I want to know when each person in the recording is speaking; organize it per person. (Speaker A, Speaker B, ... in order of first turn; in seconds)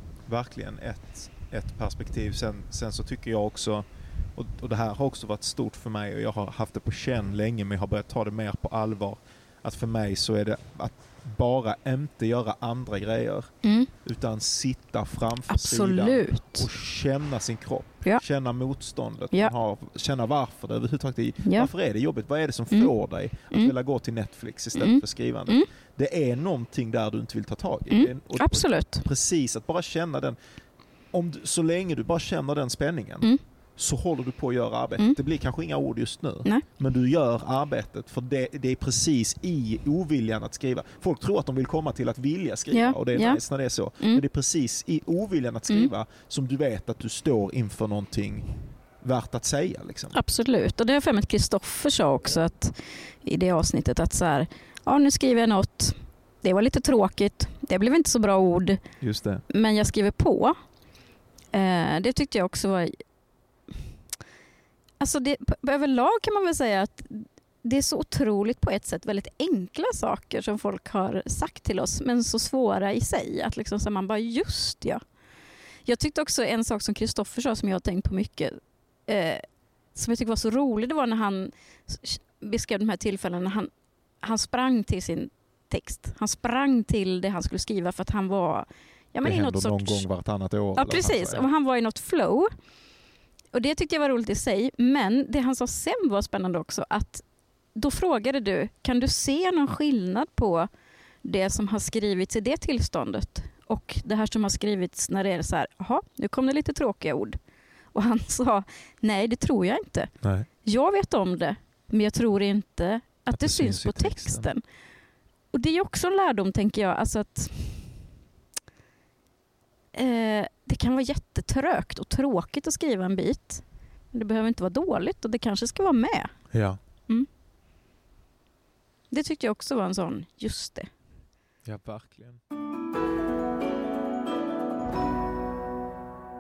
Speaker A: 0.3-30.4, 31.1-50.2, 59.0-59.4, 89.2-91.5, 110.2-110.5, 113.3-114.5, 126.5-126.8, 131.7-132.4
Speaker B: 13.6-13.9, 15.5-16.7, 24.8-25.7, 27.9-29.1, 42.7-43.4, 50.1-58.8, 59.5-60.5, 61.5-63.0, 65.0-75.0, 75.8-83.7, 84.2-90.1, 90.8-92.5, 93.5-100.7, 101.2-107.4, 107.9-114.6, 115.5-118.0, 119.9-127.3, 129.1-130.9